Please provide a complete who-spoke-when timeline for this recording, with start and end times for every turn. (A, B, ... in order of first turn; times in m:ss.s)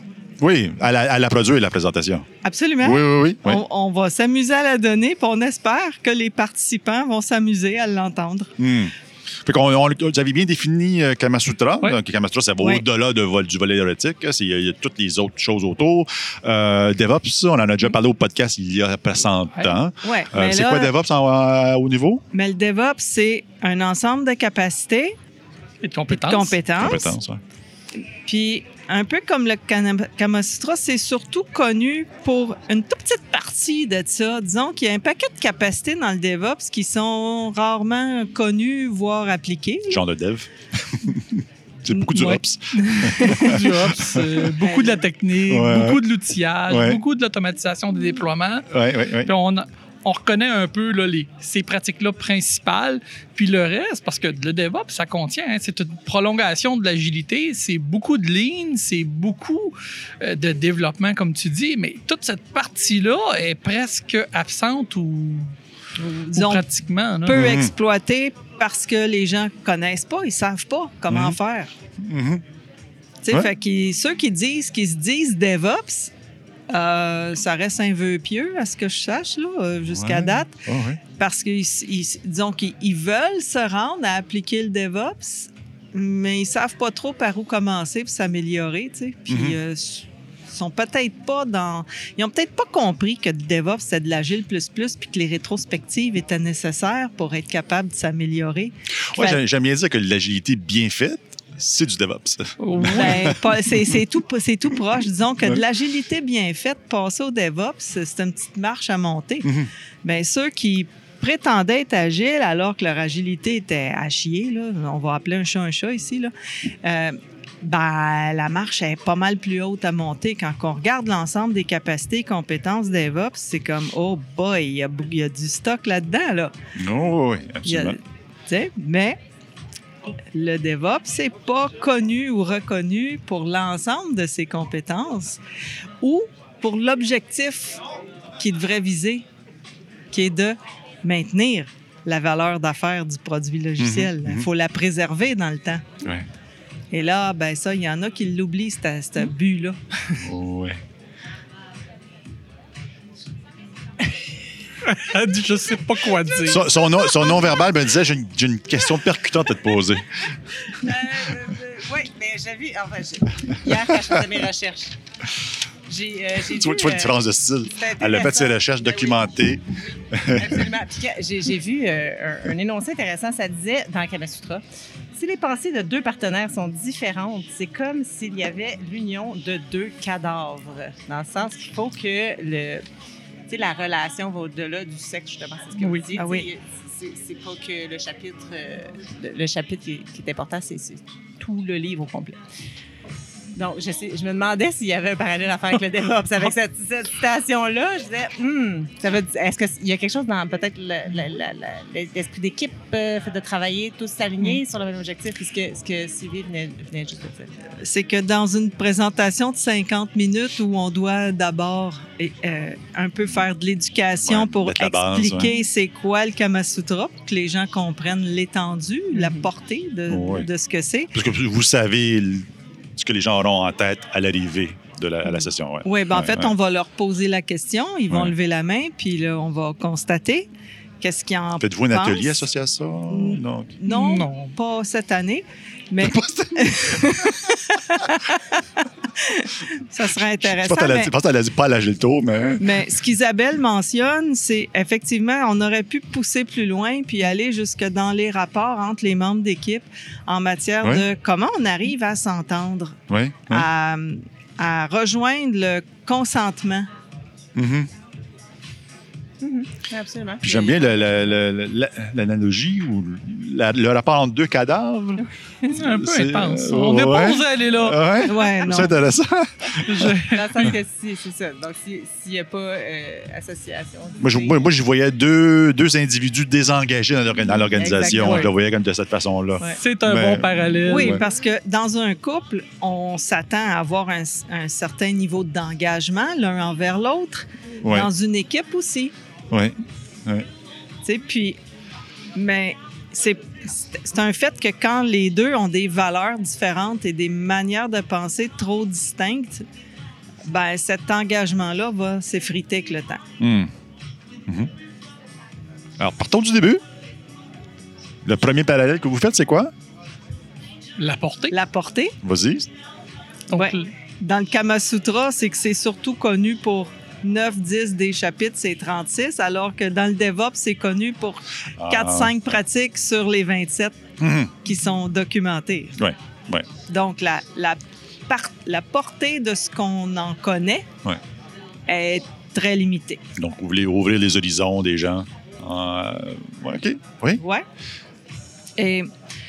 0:00.4-0:02.2 A
0:02.4-0:08.5 B
0:02.8-0:03.6 A
0:08.6-0:08.9 A
0:09.4-0:22.2 A
0:20.0-0:20.9 B
0:22.3-0:25.2 B
0:25.8-0:26.6 C
0:26.1-0:27.1 B
0:26.8-0:27.4 A
0:28.2-0:40.0 B
0:39.9-0:44.5 A
0:41.9-0:43.6 B
0:42.8-0:48.7 C
0:44.6-0:45.0 B
0:45.5-0:46.0 A
0:46.7-0:47.0 A
0:48.7-0:49.3 A
0:49.2-1:05.5 C
1:06.0-1:06.6 B
1:06.3-1:07.5 C
1:07.2-1:11.7 B
1:07.3-1:07.7 A
1:11.1-1:11.4 A
1:12.0-1:12.4 A
1:13.2-1:16.1 B
1:16.7-1:20.6 B
1:19.9-1:21.0 A
1:21.2-1:39.4 B
1:29.3-1:29.6 A
1:39.1-1:43.4 A
1:42.6-1:43.3 C
1:42.8-1:49.5 B
1:49.4-1:49.7 A
1:50.0-1:56.3 B
1:56.8-2:06.5 B
2:06.8-2:08.0 A
2:07.6-2:09.2 B
2:10.3-2:15.4 B
2:16.0-2:17.8 B
2:18.4-2:19.2 B
2:20.1-2:25.8 B
2:23.8-2:24.5 A
2:26.9-2:29.8 B
2:30.2-2:30.8 A
2:34.8-2:36.7 C
2:36.4-2:40.1 A
2:40.8-2:45.0 D
2:45.9-2:47.2 D
2:46.5-2:50.7 A
2:47.7-2:49.3 D
2:50.3-2:54.6 D
2:55.2-3:02.8 D
3:03.5-3:12.4 D
3:05.8-3:06.1 C
3:06.2-3:06.5 B
3:13.5-3:27.5 D
3:27.8-3:41.1 B
3:34.2-3:35.5 A
3:39.1-3:39.5 D
3:40.1-3:40.5 A
3:41.1-3:46.5 A
3:45.8-3:50.5 B
3:51.0-3:52.4 B
3:51.6-3:53.7 A
3:53.1-4:01.1 B
3:53.9-3:54.5 C
3:56.0-3:57.2 A
4:00.3-4:02.9 A
4:02.6-4:13.0 B
4:13.1-4:13.6 A
4:13.5-4:16.9 B
4:17.6-4:17.9 A
4:19.4-4:20.9 D
4:20.4-4:30.1 A
4:25.6-4:28.3 C
4:28.2-4:29.0 B
4:29.8-4:30.8 C
4:30.3-4:34.6 D
4:34.2-4:41.2 A
4:37.8-4:38.5 D
4:38.0-4:38.5 C
4:39.7-4:41.2 C
4:40.9-4:49.1 B
4:47.8-4:48.1 A
4:51.0-4:51.6 B
4:52.4-4:59.6 B
5:00.4-5:03.2 B
5:03.4-5:03.7 A
5:06.0-5:06.8 A
5:08.2-5:09.7 A
5:11.0-5:11.5 C
5:11.5-5:12.2 B
5:12.2-5:12.7 A
5:13.5-5:13.9 C
5:13.5-5:24.0 B
5:21.8-5:22.5 A
5:24.2-5:24.7 A
5:24.6-5:26.0 B
5:26.0-5:26.7 A
5:26.9-5:30.9 B
5:31.9-5:33.2 B
5:33.4-5:37.4 A
5:37.4-5:37.6 B
5:38.8-5:39.1 B